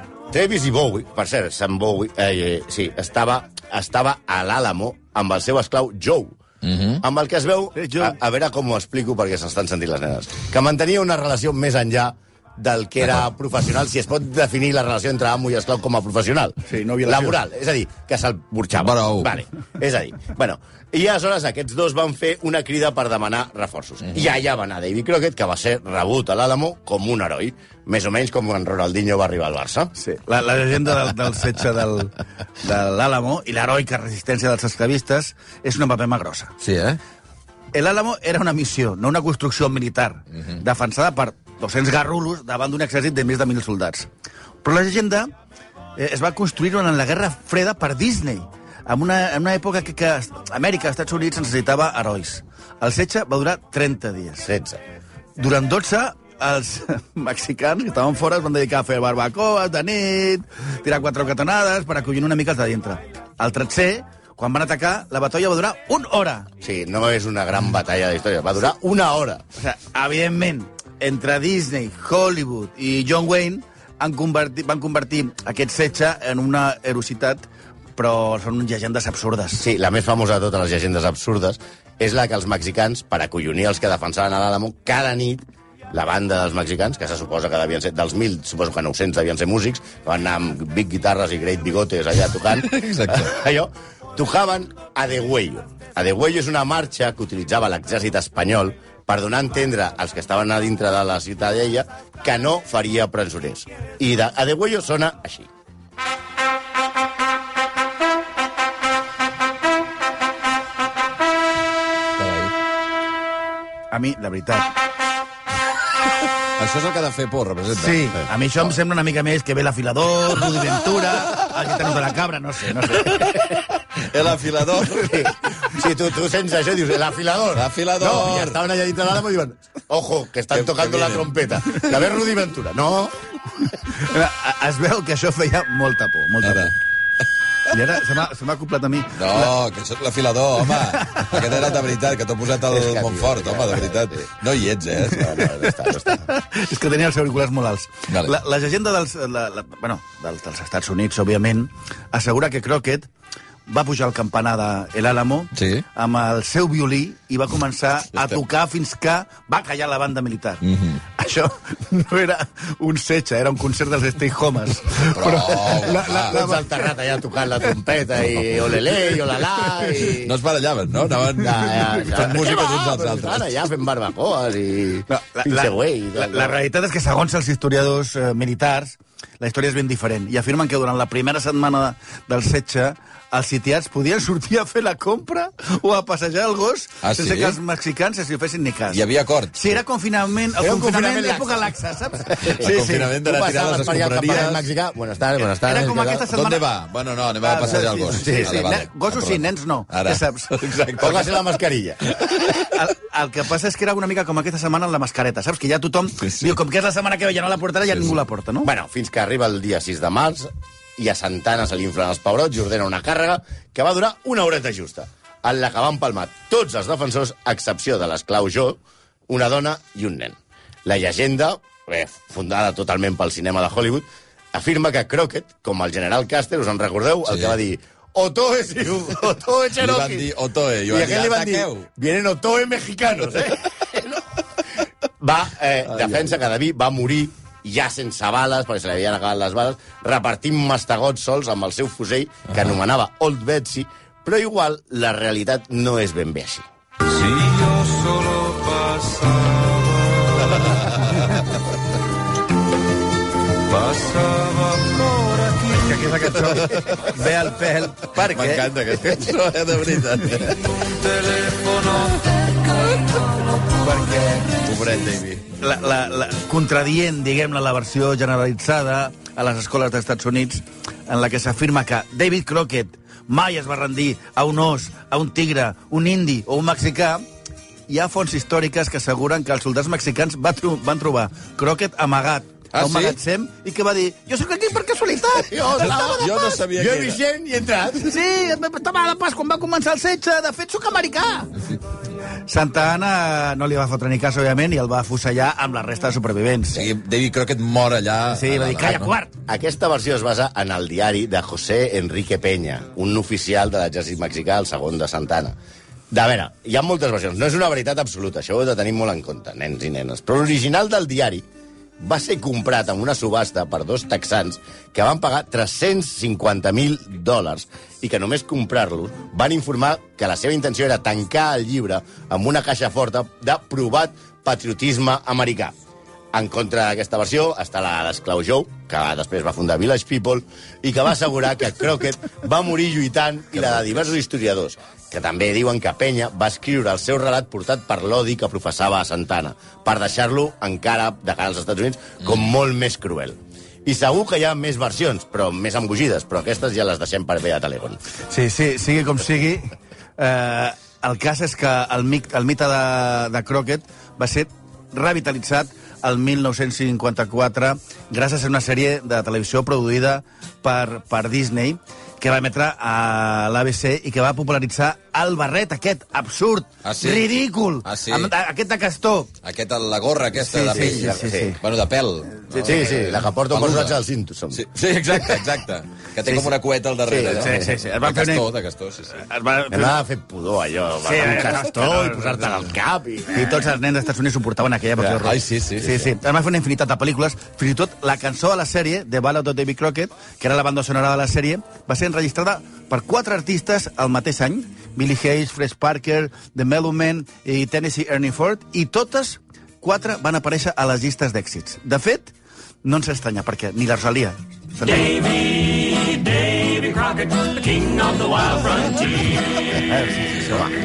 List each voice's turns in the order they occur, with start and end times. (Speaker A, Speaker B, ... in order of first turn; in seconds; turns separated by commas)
Speaker A: 0.3-6.4, Speaker B: 6.6-7.0, Speaker A: 7.0-29.9, Speaker C: 7.7-8.2, Speaker C: 16.7-17.4, Speaker B: 18.7-19.4, Speaker C: 30.0-36.5, Speaker B: 36.6-37.0, Speaker C: 37.7-44.1, Speaker C: 44.6-45.3, Speaker C: 46.0-54.5, Speaker A: 54.4-54.8, Speaker C: 55.4-66.5, Speaker A: 66.6-69.4, Speaker C: 69.6-77.4, Speaker C: 78.0-79.6, Speaker A: 79.6-105.5, Speaker B: 92.5-93.3, Speaker B: 112.2-112.5, Speaker C: 113.9-114.7, Speaker B: 116.6-118.1, Speaker C: 117.7-123.6, Speaker B: 124.0-125.3, Speaker A: 124.9-133.1, Speaker B: 127.5-128.6, Speaker B: 130.5-131.7, Speaker C: 133.9-136.7, Speaker B: 136.4-136.7, Speaker C: 137.7-139.5, Speaker B: 139.1-145.5, Speaker C: 141.0-141.5, Speaker A: 142.7-144.3, Speaker A: 145.0-146.3, Speaker C: 146.1-153.1, Speaker B: 148.1-148.3, Speaker C: 153.7-160.6, Speaker B: 155.5-155.8, Speaker B: 160.6-161.0, Speaker C: 161.2-166.9, Speaker B: 165.1-166.4, Speaker A: 166.0-170.4, Speaker B: 170.2-173.4, Speaker A: 171.4-176.5, Speaker C: 175.1-193.1, Speaker B: 187.0-187.6, Speaker B: 188.9-189.7, Speaker A: 190.6-191.7, Speaker A: 192.2-196.3, Speaker B: 192.4-194.6, Speaker C: 195.6-196.6, Speaker B: 196.3-201.3, Speaker C: 197.4-201.1, Speaker A: 198.1-198.7, Speaker A: 200.9-202.1, Speaker B: 202.1-202.7, Speaker C: 202.6-208.7, Speaker B: 206.2-206.5, Speaker A: 208.6-230.3, Speaker B: 229.8-231.9, Speaker A: 230.9-234.2, Speaker A: 235.2-246.7, Speaker C: 247.1-249.4, Speaker B: 250.4-251.5, Speaker C: 253.9-259.3, Speaker B: 256.4-257.0, Speaker B: 258.2-263.0, Speaker C: 263.7-264.6, Speaker B: 264.5-265.5, Speaker C: 265.6-277.2, Speaker C: 277.9-286.1, Speaker B: 282.7-283.2, Speaker A: 285.5-288.2, Speaker B: 285.8-287.2, Speaker C: 288.0-291.6, Speaker C: 292.4-296.9, Speaker B: 296.7-299.1, Speaker C: 298.3-299.3, Speaker A: 299.4-305.6, Speaker A: 306.1-311.4, Speaker A: 312.0-325.7, Speaker A: 326.3-348.0, Speaker C: 348.3-369.3, Speaker B: 366.8-368.3, Speaker B: 369.4-374.0, Speaker C: 370.4-371.6, Speaker A: 370.8-371.6, Speaker C: 372.5-372.8, Speaker A: 372.6-374.7, Speaker B: 374.5-379.2, Speaker C: 376.2-376.5, Speaker A: 377.1-377.6, Speaker C: 377.2-378.5, Speaker C: 379.1-379.9, Speaker A: 379.7-383.6, Speaker C: 381.0-382.4, Speaker C: 383.3-405.1, Speaker B: 385.2-386.0, Speaker D: 404.8-409.6, Speaker C: 409.7-410.7